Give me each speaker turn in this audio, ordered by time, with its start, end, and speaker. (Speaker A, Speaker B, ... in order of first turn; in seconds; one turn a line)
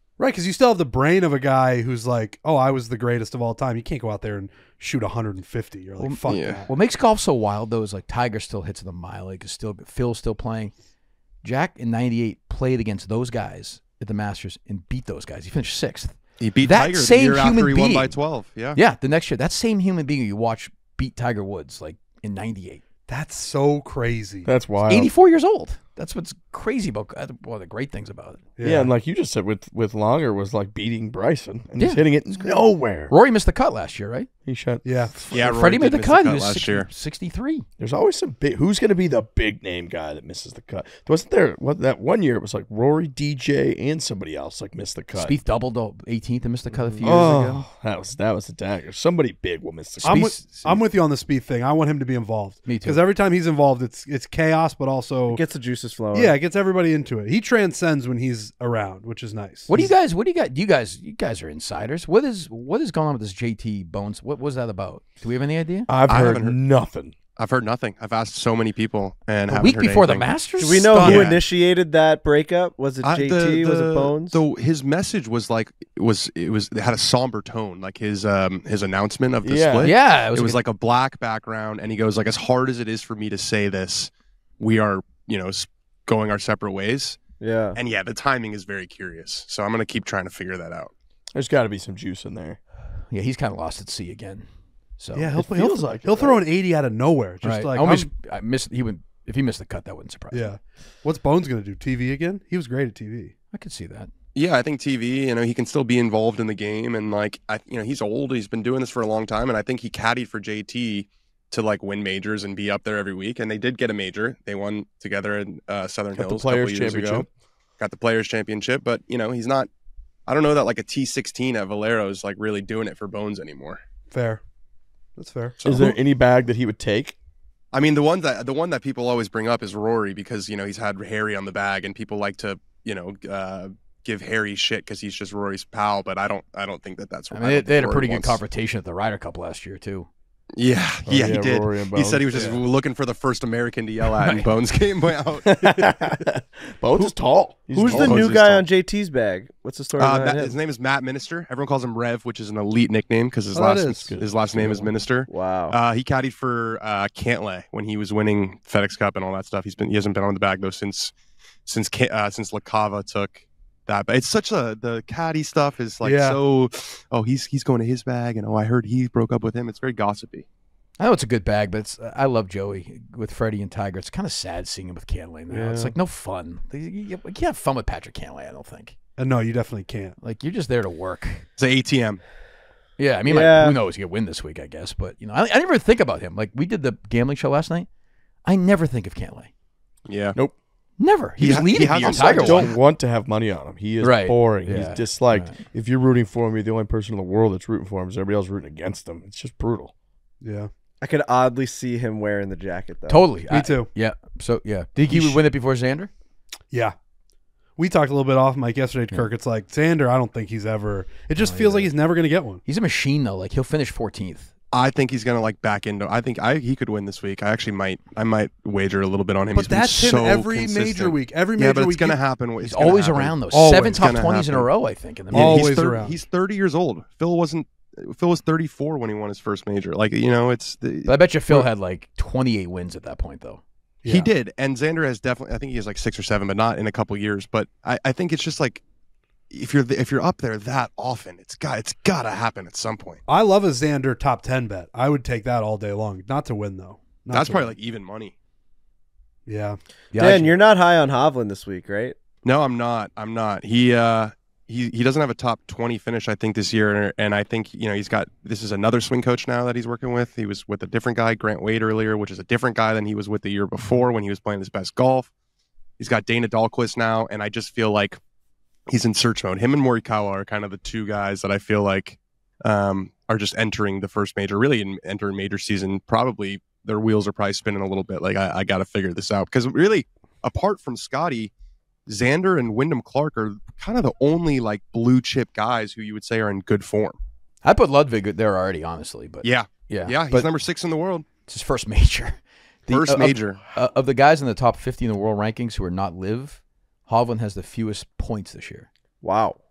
Speaker A: 0.2-6.7
Speaker B: 6.0-10.7
Speaker C: 6.3-6.6
Speaker B: 11.4-18.2
Speaker C: 16.4-18.8
Speaker B: 18.8-22.8
Speaker A: 23.1-24.5
Speaker D: 24.4-25.1
Speaker B: 24.9-28.5
Speaker A: 28.6-28.9
Speaker D: 28.6-33.1
Speaker B: 31.8-34.3
Speaker D: 34.5-35.5
Speaker A: 34.8-35.1
Speaker B: 35.3-37.6
Speaker C: 35.3-36.9
Speaker D: 37.8-45.4
Speaker B: 45.1-47.6
Speaker E: 46.7-47.1
Speaker D: 47.0-50.8
Speaker A: 50.0-55.4
Speaker B: 52.6-53.0
Speaker E: 55.3-56.4
Speaker A: 56.1-59.8
Speaker B: 59.7-65.9
Speaker D: 65.9-67.1
Speaker C: 66.1-66.6
Speaker C: 67.4-70.3
Speaker B: 69.5-71.2
Speaker E: 70.6-74.4
Speaker A: 70.6-71.4
Speaker C: 71.0-71.4
Speaker C: 73.0-87.2
Speaker D: 79.4-79.9
Speaker B: 79.8-80.6
Speaker E: 87.4-87.8
Speaker C: 87.8-90.9
Speaker D: 91.3-92.6
Speaker B: 93.1-95.3
Speaker A: 95.1-98.1
Speaker D: 95.3-96.5
Speaker B: 97.4-100.5
Speaker A: 100.3-103.3
Speaker B: 103.5-104.1
Speaker C: 104.3-117.3
Speaker D: 116.2-117.3
Speaker C: 117.8-119.7
Speaker C: 120.3-123.8
Speaker A: 124.1-124.4
Speaker A: 125.2-125.6
Speaker C: 125.6-126.0
Speaker D: 125.7-127.2
Speaker C: 127.7-138.4
Speaker B: 137.3-140.1
Speaker C: 140.6-145.9
Speaker D: 141.1-142.6
Speaker B: 144.2-144.5
Speaker D: 145.5-148.3
Speaker E: 147.7-150.6
Speaker C: 147.9-148.7
Speaker C: 150.0-161.1
Speaker A: 153.5-154.1
Speaker D: 154.1-154.9
Speaker E: 155.3-155.8
Speaker C: 161.7-170.5
Speaker A: 166.0-166.4
Speaker B: 171.0-179.0
Speaker E: 175.5-175.9
Speaker A: 179.2-180.2
Speaker B: 180.2-181.5
Speaker C: 181.6-182.2
Speaker B: 183.0-187.9
Speaker E: 183.2-183.8
Speaker B: 188.4-189.5
Speaker C: 190.1-190.4
Speaker B: 191.0-192.7
Speaker C: 191.4-192.8
Speaker D: 191.9-199.9
Speaker B: 194.0-195.6
Speaker A: 200.4-200.7
Speaker E: 201.0-203.3
Speaker B: 203.1-206.1
Speaker A: 203.5-203.9
Speaker A: 205.1-205.4
Speaker A: 207.8-212.6
Speaker B: 211.4-211.9
Speaker B: 212.7-214.5
Speaker C: 214.7-223.4
Speaker A: 219.6-222.2
Speaker B: 222.6-225.8
Speaker A: 223.5-224.1
Speaker C: 223.9-224.7
Speaker C: 225.3-231.7
Speaker A: 225.3-226.2
Speaker B: 231.1-234.3
Speaker C: 234.1-238.8
Speaker C: 239.5-243.2
Speaker A: 243.3-247.8
Speaker C: 247.3-248.3
Speaker A: 249.5-249.8
Speaker B: 250.1-250.6
Speaker E: 250.2-252.2
Speaker C: 252.4-265.3
Speaker C: 266.0-268.2
Speaker C: 268.9-281.5
Speaker C: 282.1-287.2
Speaker B: 287.6-290.6
Speaker C: 289.4-291.3
Speaker B: 291.5-298.9
Speaker C: 292.9-293.7
Speaker E: 299.2-299.6